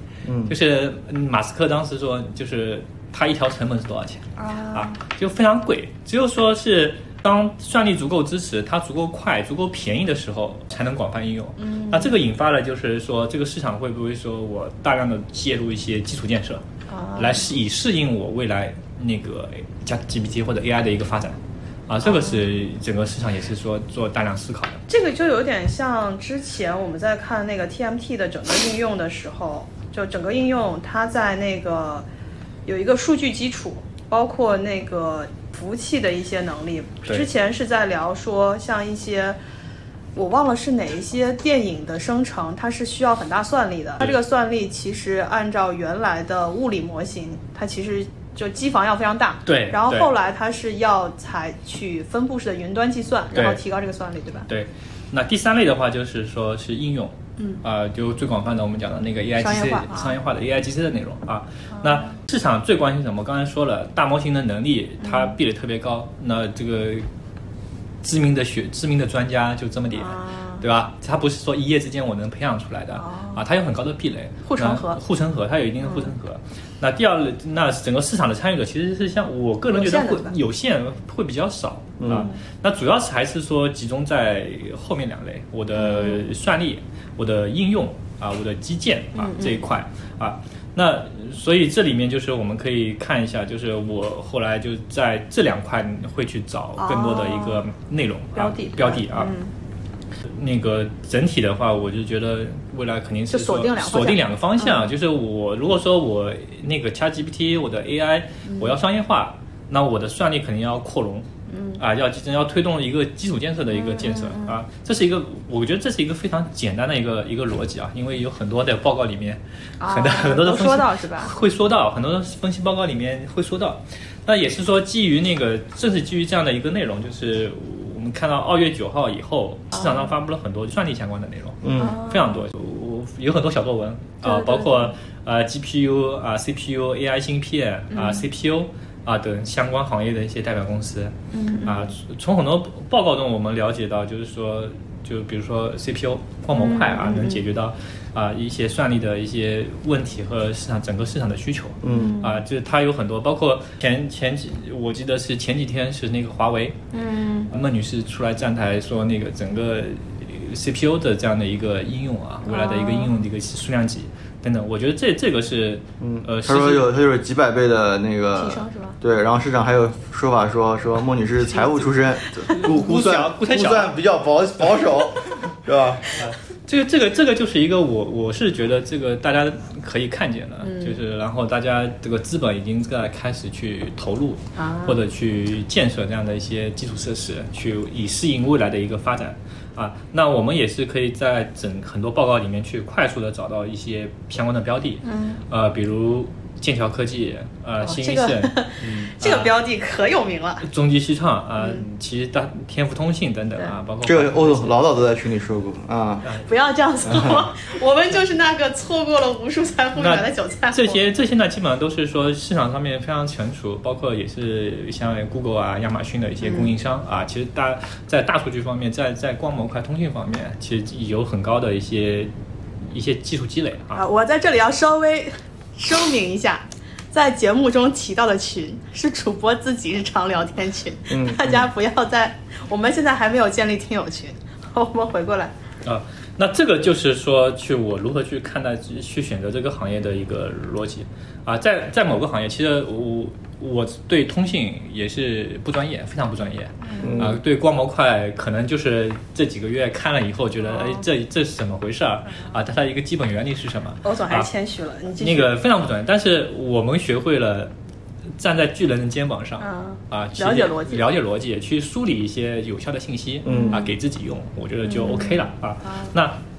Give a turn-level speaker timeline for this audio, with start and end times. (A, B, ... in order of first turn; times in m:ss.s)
0:00.2-0:00.6 A
0:00.5-0:16.6 B
0:04.4-0:05.0 C
0:11.6-0:12.2 C
0:16.9-0:17.5 C
0:17.2-0:24.8 B
0:22.0-0:22.4 C
0:24.9-0:32.0 C
0:32.6-0:39.4 C
0:40.1-0:54.5 C
0:49.4-0:50.1 B
0:53.3-0:53.6 B
0:54.5-1:07.0 B
0:59.4-1:00.1 C
1:01.7-1:02.2 C
1:05.0-1:05.3 C
1:08.0-1:39.3 B
1:09.9-1:10.6 C
1:13.0-1:13.4 C
1:14.4-1:15.0 C
1:15.8-1:16.1 C
1:19.7-1:20.4 C
1:22.0-1:22.3 A
1:22.1-1:22.4 C
1:25.8-1:26.2 C
1:29.2-1:29.6 C
1:36.8-1:37.6 C
1:38.3-1:39.5 C
1:40.3-1:51.3 B
1:43.3-1:44.9 C
1:48.4-1:48.7 C
1:51.5-1:51.8 C
1:51.8-2:21.1 B
1:53.7-1:54.6 C
1:59.8-2:01.3 C
2:09.7-2:10.1 C
2:11.6-2:12.0 A
2:11.8-2:12.4 C
2:14.2-2:14.9 C
2:17.9-2:18.2 C
2:21.3-2:21.9 C
2:21.6-2:36.8 B
2:26.5-2:27.4 C
2:31.8-2:32.2 A
2:31.9-2:32.4 C
2:36.9-2:37.5 C
2:37.5-2:46.9 B
2:42.4-2:43.1 C
2:46.0-2:56.1 A
2:48.4-2:49.0 C
2:51.6-2:51.9 B
2:52.5-2:54.0 B
2:56.1-3:19.5 B
3:00.6-3:01.0 C
3:04.6-3:05.0 C
3:15.0-3:15.4 C
3:17.8-3:20.6 C
3:20.6-3:24.8 B
3:24.0-3:26.2 A
3:26.4-3:31.0 C
3:30.0-3:44.0 B
3:36.4-3:36.7 C
3:43.9-3:55.5 C
3:51.1-3:51.7 A
3:55.8-4:14.5 B
4:06.8-4:07.1 C
4:07.0-4:07.4 A
4:10.6-4:11.0 C
4:14.0-4:15.5 C
4:15.2-4:17.7 B
4:18.4-4:26.4 B
4:19.6-4:21.1 C
4:23.4-4:23.8 A
4:23.4-4:23.9 C
4:24.8-4:26.1 C